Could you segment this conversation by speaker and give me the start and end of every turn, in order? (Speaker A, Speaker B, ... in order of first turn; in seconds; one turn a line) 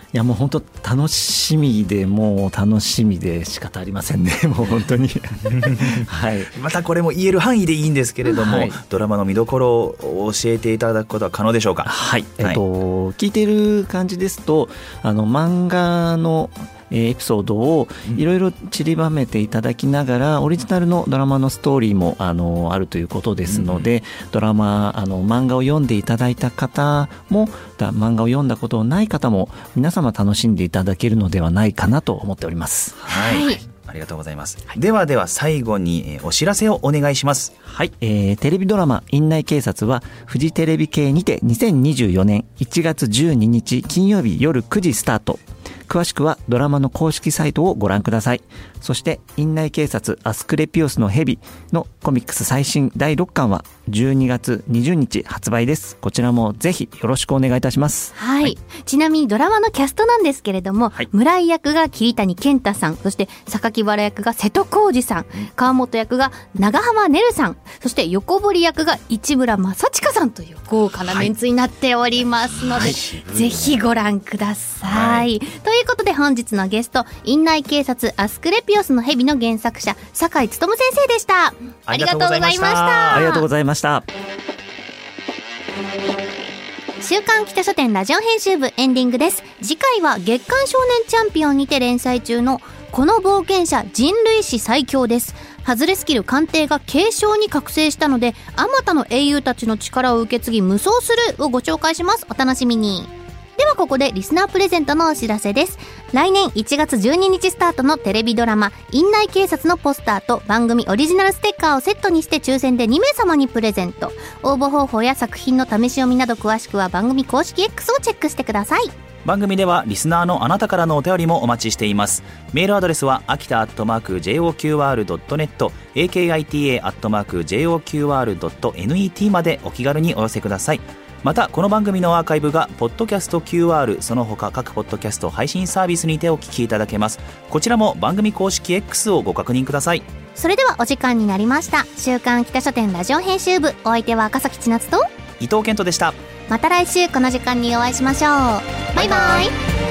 Speaker A: 0.1-6.5
Speaker B: 5.5-12.6
Speaker A: 8.3-8.8
Speaker A: 11.8-33.0
Speaker B: 23.4-23.9
Speaker B: 33.0-37.5
Speaker C: 33.1-33.6
Speaker A: 37.7-58.5
Speaker C: 58.1-83.5
Speaker B: 72.5-73.8
Speaker B: 74.8-75.3
Speaker B: 81.9-83.3
Speaker A: 83.1-84.0
Speaker C: 87.0-118.9
Speaker B: 119.2-140.1
Speaker C: 140.3-145.0
Speaker B: 145.4-146.2
Speaker C: 146.5-149.5
Speaker B: 149.0-149.4